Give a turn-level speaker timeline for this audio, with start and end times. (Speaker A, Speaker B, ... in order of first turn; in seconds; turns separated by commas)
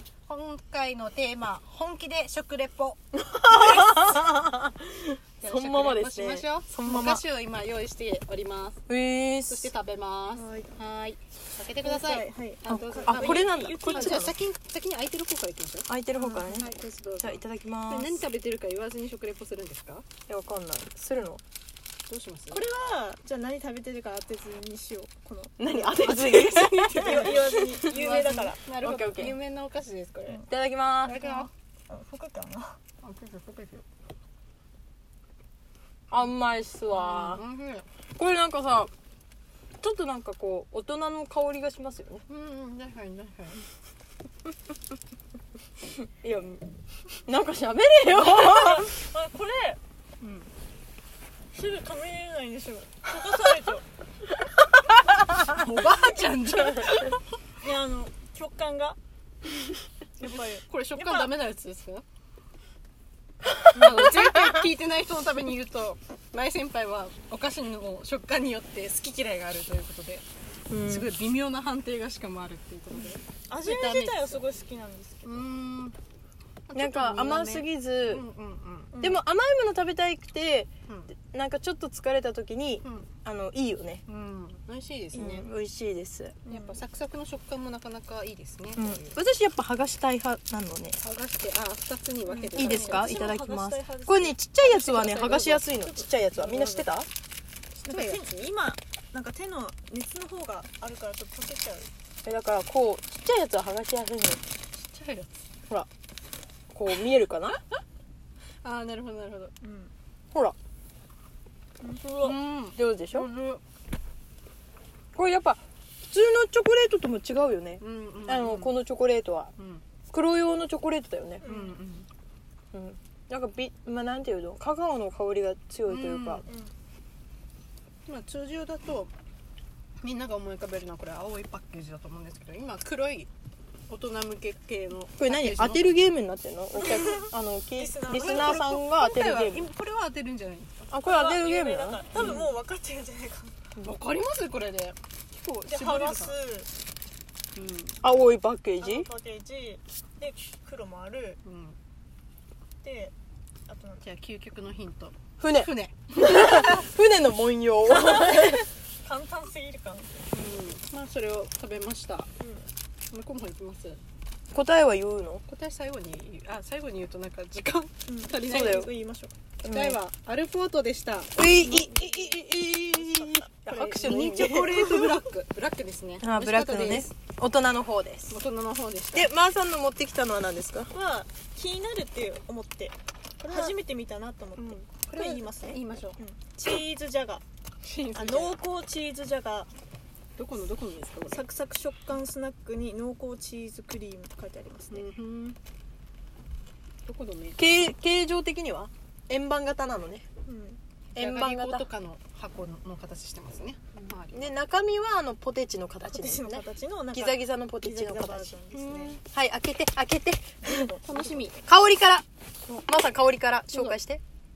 Speaker A: 0.3-3.0, Speaker B: 3.1-7.2, Speaker A: 5.4-8.8, Speaker B: 8.9-9.7, Speaker A: 9.5-20.1, Speaker C: 10.3-10.7, Speaker C: 11.8-14.3, Speaker B: 12.7-14.3, Speaker B: 15.9-18.2, Speaker C: 16.2-16.6, Speaker B: 20.3-21.4, Speaker A: 22.1-22.6, Speaker C: 22.5-26.2, Speaker B: 25.6-27.9, Speaker A: 26.2-30.5, Speaker C: 26.7-28.7, Speaker B: 28.8-29.4, Speaker B: 30.5-31.2, Speaker A: 31.1-31.5, Speaker C: 31.1-32.8, Speaker A: 33.0-33.9, Speaker B: 36.1-37.4, Speaker A: 36.9-37.9, Speaker B: 38.2-38.9, Speaker B: 39.8-42.2, Speaker A: 42.3-43.6, Speaker B: 46.1-46.7, Speaker B: 47.2-48.9, Speaker C: 48.2-49.8, Speaker A: 50.2-50.5, Speaker C: 51.5-53.9, Speaker A: 55.4-57.2, Speaker C: 57.6-59.0, Speaker C: 60.2-61.3, Speaker A: 60.2-62.0, Speaker B: 63.5-64.7, Speaker A: 63.7-70.3, Speaker B: 70.7-71.1, Speaker A: 70.8-74.5, Speaker C: 73.5-75.5, Speaker A: 75.2-76.0, Speaker A: 76.7-79.0, Speaker B: 76.7-78.2, Speaker C: 78.9-79.2, Speaker B: 79.0-84.0, Speaker A: 80.9-81.1, Speaker A: 82.8-83.1, Speaker A: 84.1-85.5, Speaker C: 85.2-85.4, Speaker B: 85.2-86.4, Speaker A: 86.5-89.2, Speaker C: 86.5-86.8, Speaker B: 88.8-91.0, Speaker A: 91.0-93.2, Speaker C: 92.3-96.7, Speaker B: 92.5-97.1, Speaker A: 94.9-95.7, Speaker A: 96.4-96.9, Speaker A: 97.8-98.5, Speaker C: 97.8-101.9, Speaker B: 102.2-104.4, Speaker A: 104.8-105.4, Speaker B: 106.7-107.6, Speaker A: 108.6-109.5, Speaker C: 109.6-109.9, Speaker C: 111.8-112.3, Speaker B: 112.2-113.3, Speaker A: 112.2-113.6, Speaker B: 115.2-119.5, Speaker A: 117.8-118.8, Speaker A: 119.6-119.8, Speaker B: 120.1-121.5, Speaker C: 121.4-121.8, Speaker A: 121.4-122.1, Speaker B: 122.7-126.5, Speaker A: 125.9-126.5, Speaker C: 126.5-126.7, Speaker A: 128.1-129.1, Speaker A: 130.0-133.3, Speaker A: 133.9-136.0, Speaker B: 135.2-139.7, Speaker C: 136.8-138.6, Speaker A: 138.1-140.9, Speaker B: 140.9-142.4, Speaker C: 140.9-143.6, Speaker A: 142.2-142.5, Speaker A: 143.8-146.3, Speaker C: 145.7-146.7, Speaker A: 147.6-148.0, Speaker B: 148.0-149.1, Speaker C: 148.8-151.4, Speaker A: 151.4-151.8, Speaker C: 152.8-153.1, Speaker C: 153.7-154.0, Speaker A: 154.0-156.9, Speaker B: 155.4-158.6, Speaker C: 157.9-160.3, Speaker A: 160.3-162.3, Speaker C: 162.4-162.7, Speaker A: 163.1-164.0, Speaker B: 164.5-165.4, Speaker A: 165.5-168.9, Speaker C: 168.1-169.3, Speaker B: 168.4-168.9, Speaker A: 169.6-172.3, Speaker B: 169.7-170.0, Speaker B: 171.4-175.2, Speaker C: 171.7-172.1, Speaker C: 173.1-173.4, Speaker A: 173.6-177.1, Speaker B: 176.2-178.4, Speaker A: 178.3-179.3, Speaker B: 179.1-180.9, Speaker C: 180.9-187.4, Speaker A: 183.4-183.8, Speaker A: 184.6-186.2, Speaker A: 187.8-188.6, Speaker C: 188.2-189.7, Speaker A: 190.4-191.4, Speaker C: 191.3-195.1, Speaker A: 194.9-195.6, Speaker A: 197.1-197.7, Speaker B: 197.6-200.3, Speaker C: 200.4-200.8, Speaker B: 201.1-201.9, Speaker A: 201.2-204.5, Speaker B: 204.0-208.6, Speaker C: 206.1-209.2, Speaker A: 208.7-209.2, Speaker B: 209.1-210.9, Speaker C: 210.6-211.7, Speaker A: 211.1-211.6, Speaker B: 211.7-212.2, Speaker B: 212.8-214.2, Speaker A: 213.7-214.0